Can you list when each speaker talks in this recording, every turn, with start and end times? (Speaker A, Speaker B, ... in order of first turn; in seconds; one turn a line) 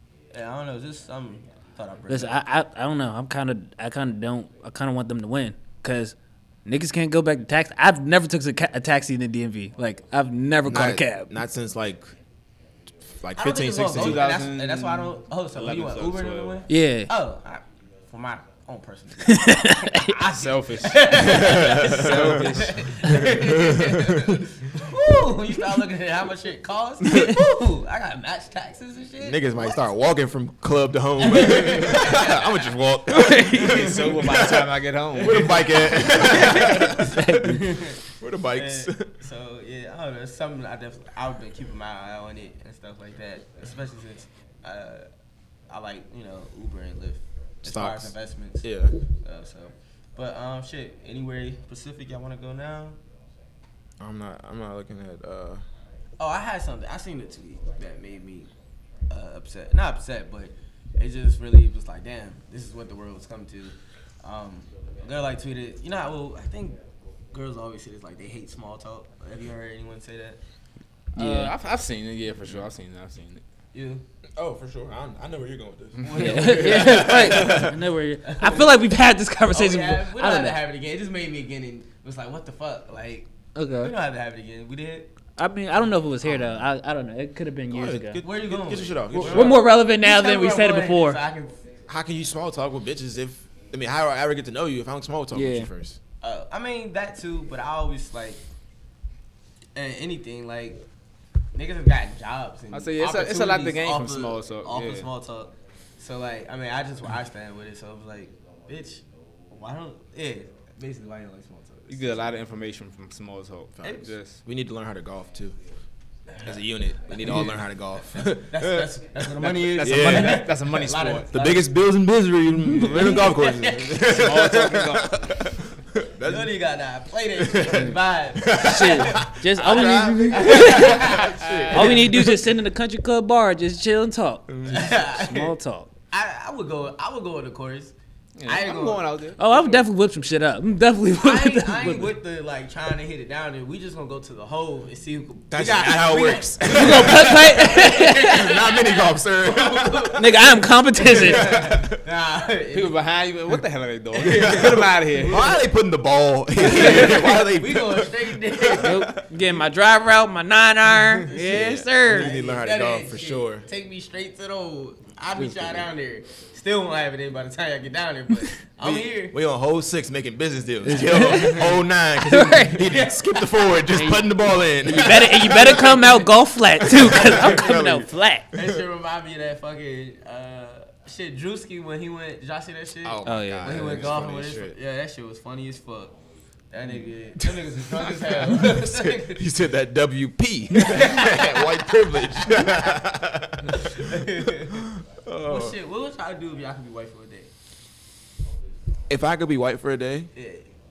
Speaker A: 0.3-2.4
Speaker B: 2.1-6.2
Speaker B: 6.7-11.4
Speaker C: 10.7-12.1
Speaker C: 13.2-14.2
Speaker A: 13.3-29.8
Speaker D: 13.9-16.6
Speaker B: 16.7-17.1
Speaker B: 19.3-20.2
Speaker D: 20.2-22.9
Speaker C: 21.1-24.4
Speaker B: 27.1-27.4
Speaker C: 27.1-27.4
Speaker C: 29.2-37.5
Speaker A: 31.2-32.7
Speaker B: 33.1-34.0
Speaker D: 33.4-35.9
Speaker A: 35.9-38.0
Speaker B: 36.6-37.7
Speaker C: 38.0-39.1
Speaker A: 38.5-45.1
Speaker A: 45.7-53.0
Speaker C: 47.6-49.0
Speaker C: 54.0-55.6
Speaker A: 56.2-58.5
Speaker A: 59.1-66.8
Speaker A: 67.3-70.4
Speaker B: 71.2-71.5
Speaker D: 71.2-73.4
Speaker A: 73.7-74.0
Speaker C: 74.4-77.8
Speaker D: 76.0-76.3
Speaker A: 76.0-77.7
Speaker B: 76.2-80.6
Speaker A: 78.2-78.9
Speaker A: 79.5-85.1
Speaker B: 83.5-83.9
Speaker B: 85.4-88.2
Speaker C: 86.2-86.7
Speaker C: 87.7-89.6
Speaker A: 88.2-91.6
Speaker B: 89.1-91.2
Speaker C: 91.9-96.0
Speaker B: 95.3-95.7
Speaker A: 96.2-98.4
Speaker A: 99.8-100.8
Speaker A: 101.5-112.2
Speaker D: 102.7-105.1
Speaker D: 111.9-114.4
Speaker C: 113.8-115.6
Speaker A: 113.8-114.1
Speaker A: 116.3-116.5
Speaker C: 116.4-118.9
Speaker A: 117.2-117.6
Speaker A: 118.2-121.6
Speaker D: 119.4-121.4
Speaker C: 119.8-120.5
Speaker C: 121.3-126.5
Speaker A: 122.8-124.6
Speaker D: 124.0-125.2
Speaker A: 126.2-129.3
Speaker C: 127.4-132.4
Speaker B: 128.5-135.9
Speaker A: 130.3-132.1
Speaker D: 131.4-131.9
Speaker C: 134.5-134.9
Speaker A: 134.7-135.5
Speaker A: 136.1-137.9
Speaker D: 138.4-139.8
Speaker A: 138.5-139.1
Speaker B: 139.4-142.2
Speaker A: 141.2-150.3
Speaker C: 145.5-150.2
Speaker B: 146.7-148.5
Speaker B: 150.2-151.5
Speaker A: 151.0-153.0
Speaker C: 151.1-152.0
Speaker D: 152.7-155.5
Speaker A: 154.2-155.6
Speaker C: 154.2-159.2
Speaker A: 156.6-159.1
Speaker B: 158.8-162.3
Speaker C: 161.3-163.7
Speaker A: 162.1-169.4
Speaker C: 168.8-176.2
Speaker B: 170.8-172.9
Speaker A: 171.2-171.6
Speaker A: 172.8-173.7
Speaker B: 173.9-178.5
Speaker C: 176.8-178.1
Speaker A: 177.2-177.5
Speaker A: 178.5-186.2
Speaker C: 183.0-184.8
Speaker B: 183.2-184.1
Speaker A: 186.7-189.5
Speaker C: 187.4-195.8
Speaker A: 190.7-192.9
Speaker A: 193.7-194.9
Speaker A: 195.4-197.5
Speaker C: 199.1-200.3
Speaker A: 200.3-200.7